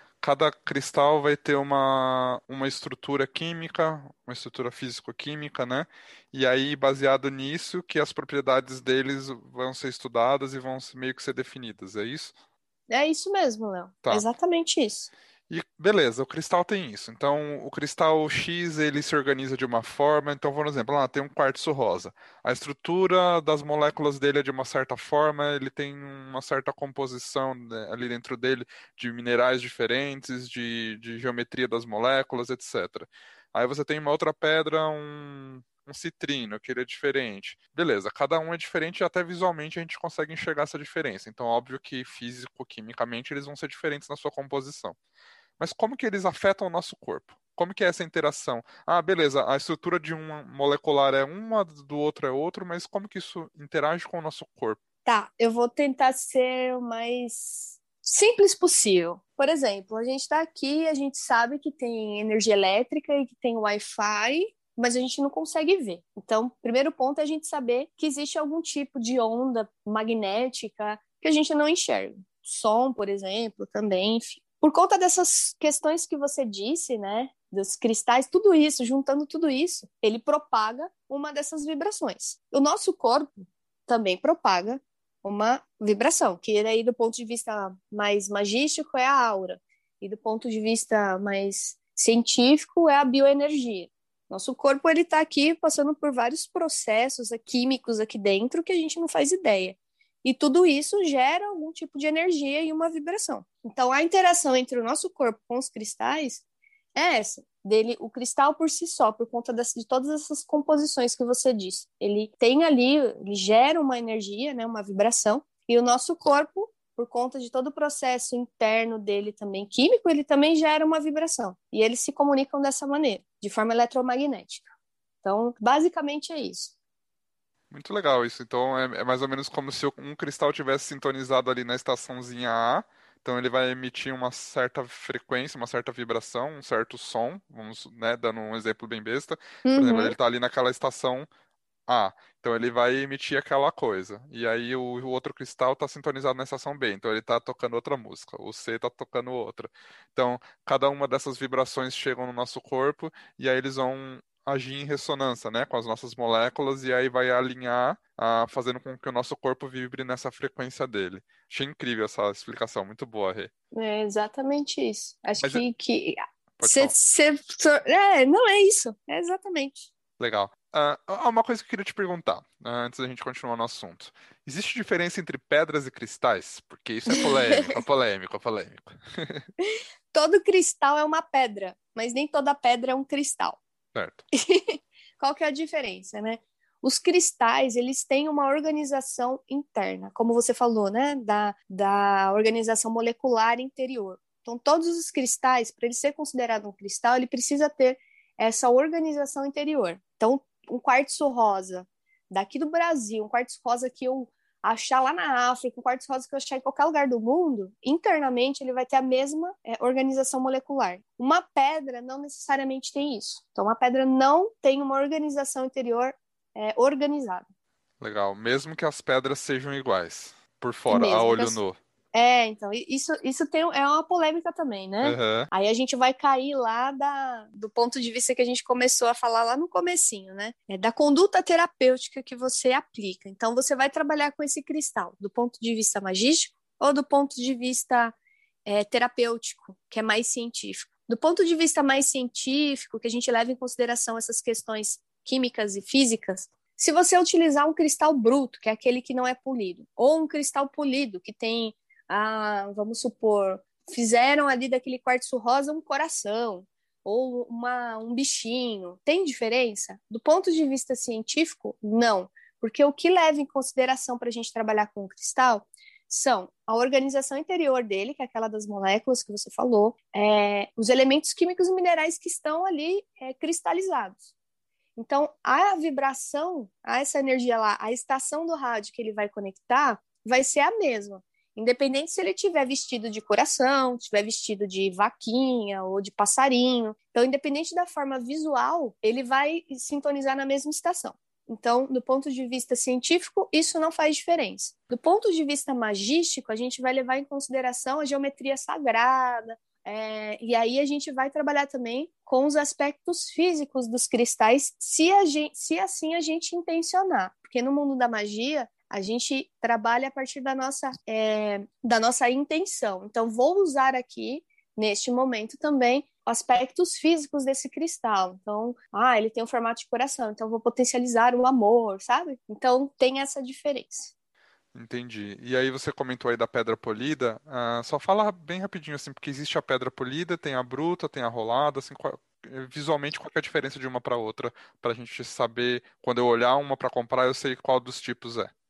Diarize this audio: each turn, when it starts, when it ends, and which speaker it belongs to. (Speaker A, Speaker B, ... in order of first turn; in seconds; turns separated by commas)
Speaker A: 0.2-12.3, Speaker B: 12.9-15.1, Speaker A: 15.5-45.0, Speaker A: 45.6-54.8, Speaker B: 55.0-106.4, Speaker B: 107.0-124.7, Speaker B: 125.2-126.7, Speaker A: 127.7-141.3, Speaker B: 139.7-140.1, Speaker A: 141.9-163.5, Speaker B: 163.7-169.9, Speaker A: 165.4-165.6, Speaker A: 166.6-166.9, Speaker A: 170.2-179.5, Speaker B: 177.1-177.8, Speaker B: 179.7-183.6, Speaker A: 183.9-184.2, Speaker B: 184.3-217.5, Speaker A: 218.0-221.8, Speaker B: 220.9-221.6, Speaker B: 222.1-238.2, Speaker A: 225.0-225.5, Speaker B: 238.7-274.3, Speaker B: 275.0-324.1, Speaker A: 324.7-338.5